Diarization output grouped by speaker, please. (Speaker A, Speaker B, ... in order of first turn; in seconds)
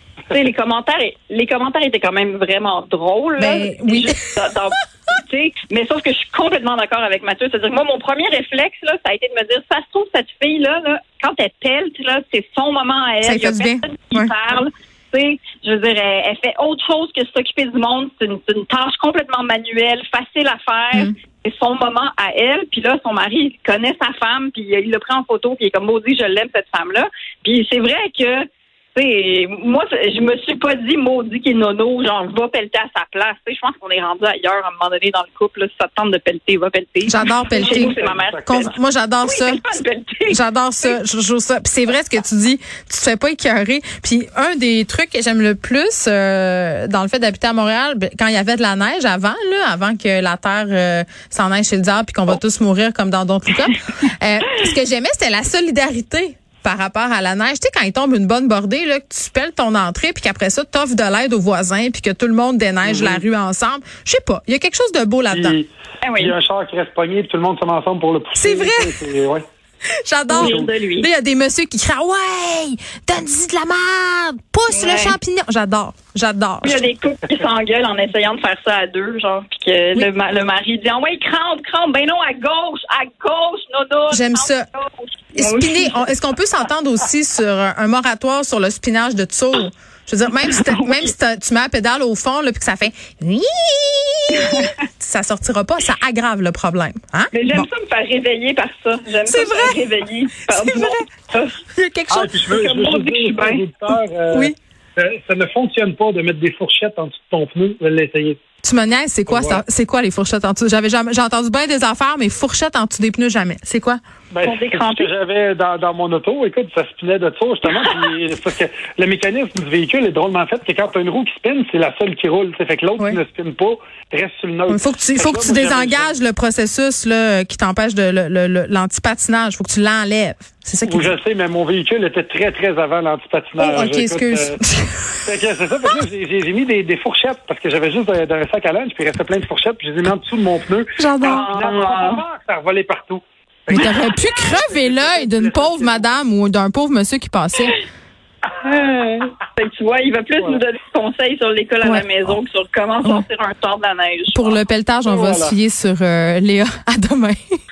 Speaker A: 0.3-41.0, 66.0-66.3, 70.3-71.1, 74.7-75.2, 76.6-86.1, 90.5-91.1, 94.3-94.7, 97.3-101.6, 102.5-103.6, 114.4-115.1, 141.2-142.2, 148.6-154.6
Speaker B: 3.4-4.4, 13.2-14.3, 37.1-39.6, 40.3-65.6, 68.4-69.0, 70.0-76.8, 84.1-84.7, 85.3-97.7, 99.3-99.8, 100.5-101.0, 101.8-102.5, 108.6-114.0, 124.7-131.1, 133.6-135.2, 141.0-141.4, 143.7-147.8, 151.8-152.4, 154.3-157.4
Speaker C: 37.6-38.5, 62.8-63.2, 65.3-69.4, 70.4-70.7, 102.1-108.4, 109.3-109.6, 114.3-126.1, 130.9-134.6, 135.2-146.1, 155.1-155.6